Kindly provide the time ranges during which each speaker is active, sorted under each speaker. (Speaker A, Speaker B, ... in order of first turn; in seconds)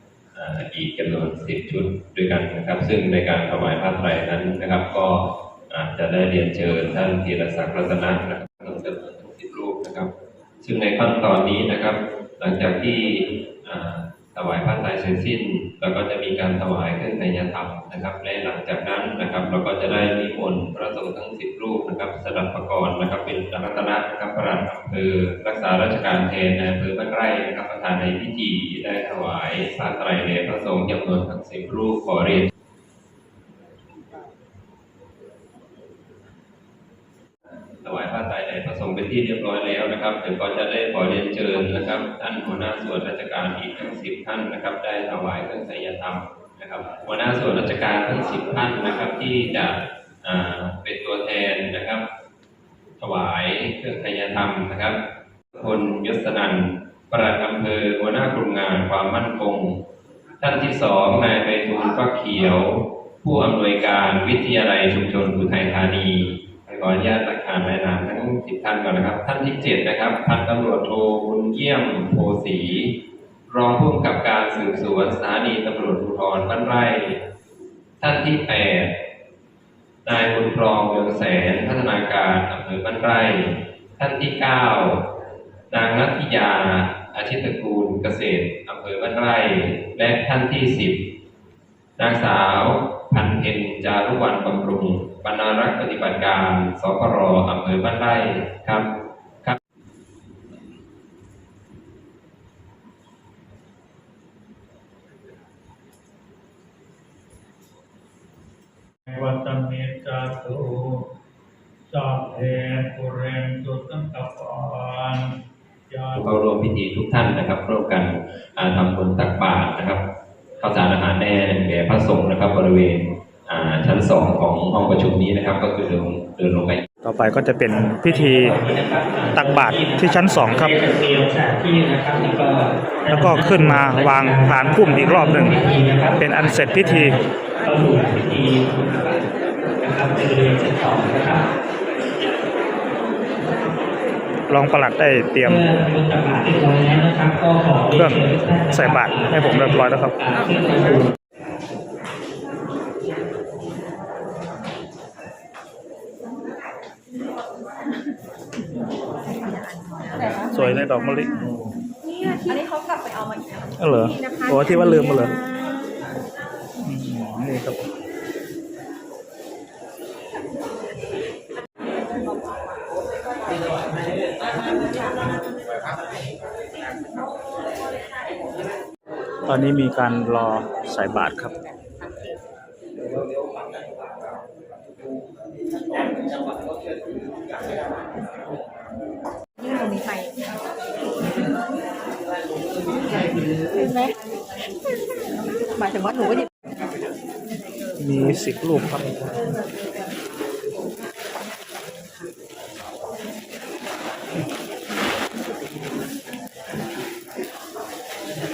Speaker A: 0.3-10.1, 10.6-32.5, 37.8-52.0, 53.0-55.0, 55.5-59.8, 60.4-73.0, 73.5-77.2, 78.0-78.9, 80.0-85.1, 85.7-91.1, 92.0-98.9, 116.2-120.0, 120.6-126.8
Speaker B: 109.1-111.1, 111.9-115.3, 115.9-116.2
Speaker C: 127.0-128.6, 129.3-130.8, 133.1-137.2, 144.5-145.7, 147.9-150.2, 160.4-161.7, 163.8-165.4, 166.8-167.9, 179.5-181.5, 197.9-199.2
Speaker D: 128.0-139.2, 139.8-141.4, 145.4-151.1
Speaker E: 159.4-161.1, 164.3-165.0, 189.6-190.4, 193.7-194.1, 195.9-196.4